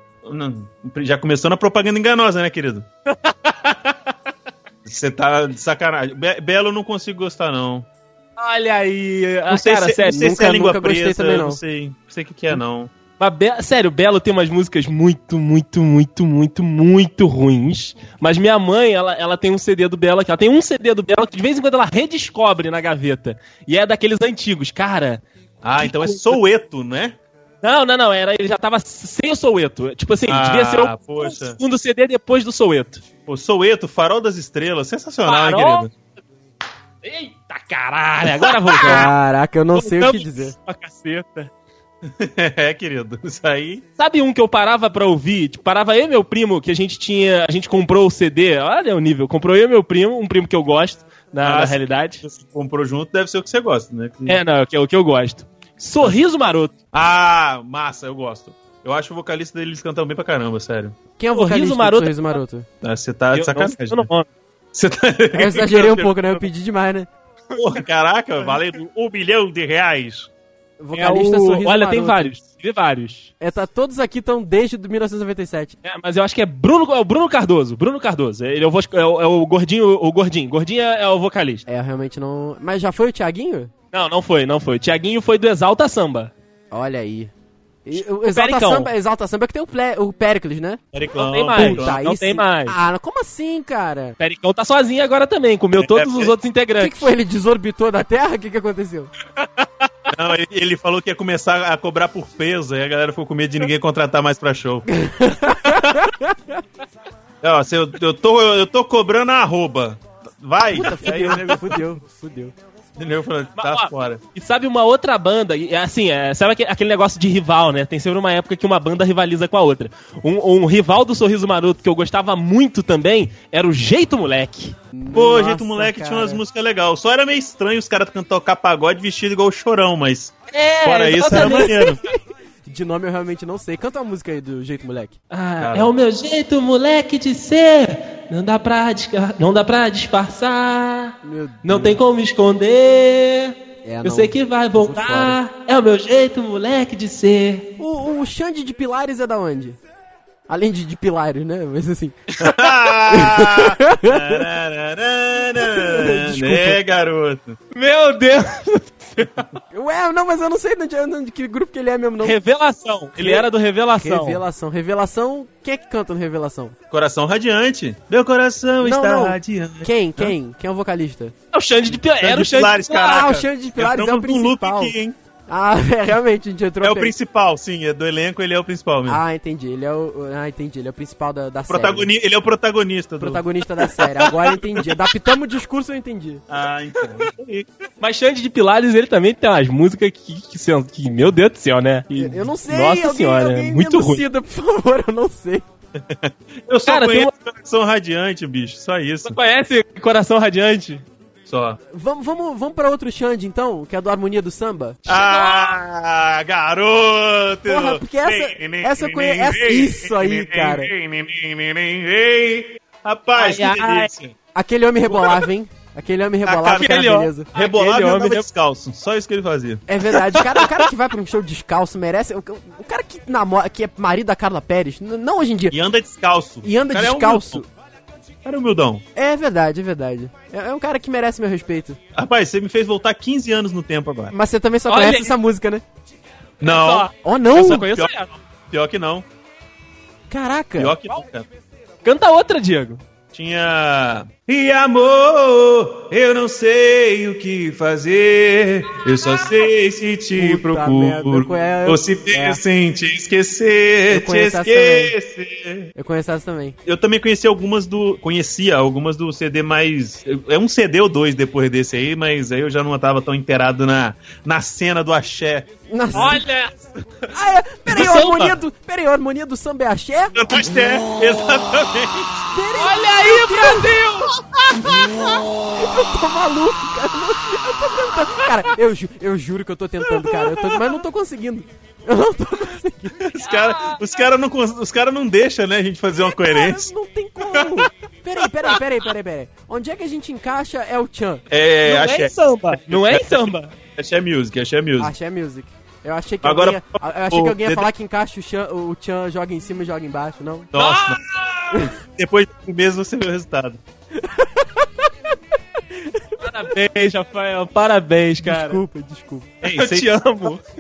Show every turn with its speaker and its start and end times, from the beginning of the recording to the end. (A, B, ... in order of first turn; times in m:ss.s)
0:00.2-0:02.9 A
0:03.1-0:03.9 B
0:04.9-0:07.9 A
0:08.4-0:10.3 B
0:09.5-0:12.9 A
0:10.1-0:11.6 C
0:13.2-0:25.2 B
0:25.6-0:27.2 A
0:25.8-0:26.4 B
0:27.6-0:33.0 B
0:30.3-0:31.6 A
0:33.3-0:35.9 A
0:35.3-0:35.9 B
0:37.0-0:39.1 B
0:38.8-0:40.5 C
0:39.7-0:41.5 B
0:42.0-0:43.8 A
0:44.0-0:52.2 B
0:51.4-0:54.4 A
0:54.3-0:56.7 B
0:56.9-1:01.0 A
1:01.2-1:02.7 C
1:01.3-1:02.4 B
1:02.8-1:04.1 A
1:03.3-1:04.3 B
1:04.7-1:06.4 A
1:05.3-1:07.1 C
1:07.5-1:07.8 B
1:07.6-1:10.3 A
1:10.8-1:12.3 C
1:10.9-1:13.3 B
1:13.4-1:15.8 C
1:15.8-1:21.7 B
1:21.7-1:23.7 C
1:23.9-1:26.3 B
1:26.7-1:27.3 C
1:27.8-1:30.8 C
1:27.9-1:28.9 B
1:30.9-1:32.0 A
1:31.2-1:32.8 B
1:31.5-1:34.2 C
1:34.2-1:37.1 B
1:35.8-1:36.3 A
1:36.8-1:39.1 C
1:39.4-1:39.9 B
1:40.1-1:44.9 A
1:44.9-1:46.6 C
1:47.4-1:51.8 A
1:50.7-1:52.5 C
1:53.0-1:54.2 A
1:53.6-2:04.8 B
2:04.9-2:06.4 C
2:05.1-2:12.0 A
2:10.5-2:11.9 B
2:11.3-2:15.2 C
2:15.3-2:27.7 B
2:15.6-2:15.9 A
2:21.2-2:22.0 C
2:23.8-2:25.4 C
2:27.8-2:29.8 C
2:30.5-2:32.2 C
2:32.4-2:37.6 A
2:33.1-2:34.4 C
2:35.6-2:36.8 C
2:37.7-2:39.4 B
2:39.7-2:42.4 C
2:42.2-2:44.4 B
2:43.2-2:43.5 A
2:44.0-2:46.8 C
2:46.9-2:50.4 A
2:48.8-2:51.4 C
2:51.5-2:52.9 B
2:51.9-2:55.2 A
2:52.9-2:55.0 C
2:55.5-2:57.1 C
2:56.8-2:59.2 A
2:59.1-3:02.1 C
3:01.7-3:03.4 A
3:03.2-3:06.4 C
3:04.2-3:04.6 B
3:06.5-3:07.7 A
3:08.0-3:14.2 B
3:12.1-3:15.6 C
3:16.0-3:19.4 A
3:16.9-3:17.3 B
3:19.2-3:21.0 B
3:21.5-3:21.8 A
3:21.9-3:25.0 C
3:25.1-3:25.8 B
3:25.1-3:34.4 A
3:27.7-3:30.9 C
3:33.3-3:34.1 B
3:34.6-3:37.5 C
3:35.1-3:35.4 A
3:36.5-3:37.0 A
3:36.6-3:38.5 B
3:37.5-3:39.8 A
3:39.9-3:45.8 C
3:40.1-3:40.9 B
3:45.7-3:47.6 A
3:46.6-3:47.7 C
3:48.4-3:49.0 A
3:49.2-3:52.0 C
3:52.2-3:54.4 A
3:54.3-3:55.8 C
3:54.9-3:55.4 B
3:56.6-3:58.1 A
3:56.6-3:58.3 B
3:57.2-3:57.8 C
3:58.7-3:59.3 A
4:00.3-4:01.0 C
4:00.8-4:01.5 A
4:02.0-4:03.0 B
4:03.3-4:15.9 A
4:10.3-4:12.6 C
4:14.1-4:15.1 C
4:16.0-4:16.8 C
4:16.9-4:26.4 A
4:25.9-4:26.4 C
4:26.1-4:26.7 B
4:27.3-4:30.4 C
4:27.9-4:28.6 B
4:30.4-4:32.5 A
4:32.5-4:34.0 C
4:32.7-4:35.1 B
4:34.8-4:43.2 C
4:43.2-4:46.9 A
4:43.4-4:44.0 B
4:46.3-4:51.4 C
4:51.5-4:55.1 A
4:51.8-4:53.7 B
4:55.0-5:00.7 C
4:56.4-4:57.9 A
5:00.7-5:03.8 A
5:00.8-5:01.2 B
5:04.2-5:05.1 C
5:05.9-5:06.3 C
5:06.4-5:08.8 B
5:08.4-5:09.5 C
5:09.6-5:10.1 A
5:09.6-5:10.6 B